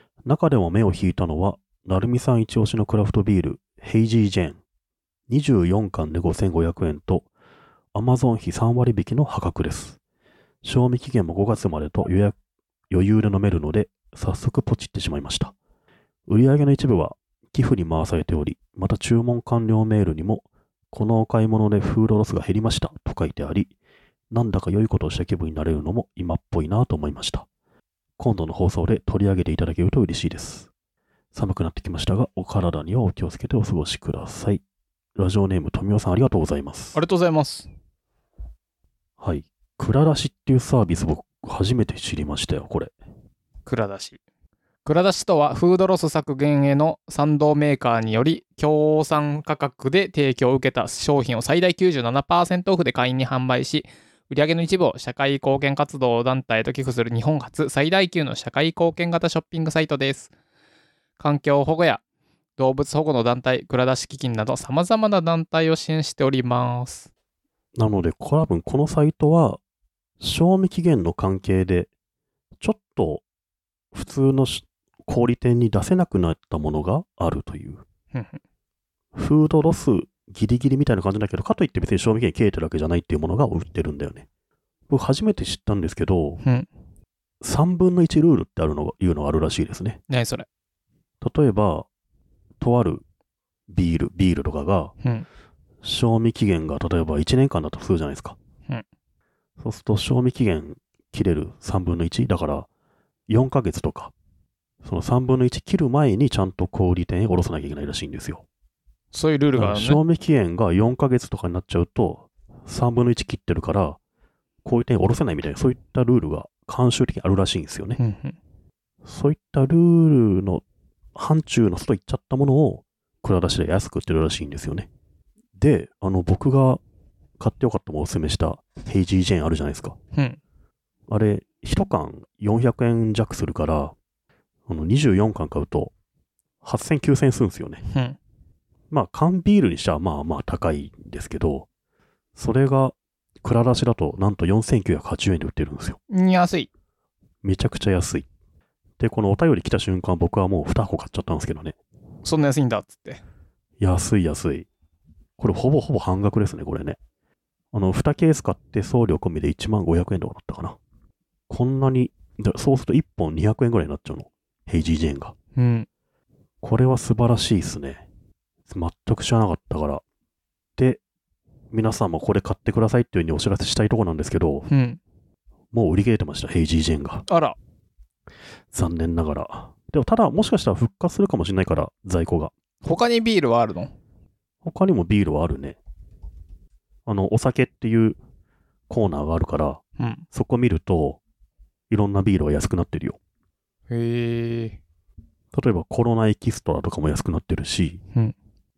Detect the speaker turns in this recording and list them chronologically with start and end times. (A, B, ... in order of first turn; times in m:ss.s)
0:00.2-0:04.6 A
0:05.3-0:07.3 A
0:07.9-0:10.0 A
0:10.6-0:12.4 A
0:12.9-0:15.6 A
0:16.3-0:23.7 A
0:24.3-0:27.5 A
0:28.2-0:30.7 A
0:31.3-0:34.6 A
0:35.2-0:37.0 A
0:37.0-0:37.7 B
0:39.2-0:43.0 A
0:43.7-0:44.2 B
0:44.8-1:00.3 B
1:01.2-1:02.0 B
1:02.6-1:07.1 B
1:07.8-1:09.6 A
1:10.2-1:11.9 A
1:12.6-1:13.2 A
1:13.9-1:17.8 A
1:18.1-1:18.4 B
1:19.2-1:24.3 A
1:24.9-1:26.4 A
1:26.4-1:26.7 B
1:27.4-1:30.0 A
1:30.1-1:30.5 B
1:31.2-1:31.9 A
1:32.6-1:33.0 A
1:33.7-1:34.9 A
1:35.8-1:38.4 A
1:39.6-1:42.7 A
1:43.3-1:44.1 A
1:44.8-1:48.4 A
1:49.1-1:50.0 B
1:49.5-1:54.0 A
1:54.6-1:58.0 A
1:58.0-1:58.4 B
1:59.0-2:00.6 A
2:01.2-2:04.9 A
2:05.6-2:06.8 A
2:07.4-2:10.0 A
2:11.1-2:14.0 A
2:14.7-2:15.9 A
2:16.6-2:17.8 A
2:17.9-2:18.2 B
2:18.9-2:21.7 A
2:22.4-2:26.0 A
2:26.1-2:26.7 B
2:27.4-2:28.3 A
2:29.0-2:31.8 A
2:32.2-2:33.2 B
2:33.8-2:34.7 A
2:35.4-2:37.0 A
2:37.7-2:40.8 A
2:41.5-2:45.3 A
2:45.6-2:45.9 B
2:46.6-2:48.0 A
2:48.7-2:50.0 A
2:50.8-2:51.0 A
2:51.7-2:54.7 A
2:54.7-2:55.0 B
2:55.7-2:57.2 A
2:57.3-2:57.6 B
2:58.7-3:02.5 A
3:02.8-3:03.9 B
3:04.6-3:05.8 A
3:07.1-3:08.2 A
3:08.9-3:11.2 A
3:10.0-3:10.2 B
3:11.9-3:13.2 A
3:13.9-3:14.8 B
3:15.5-3:18.0 A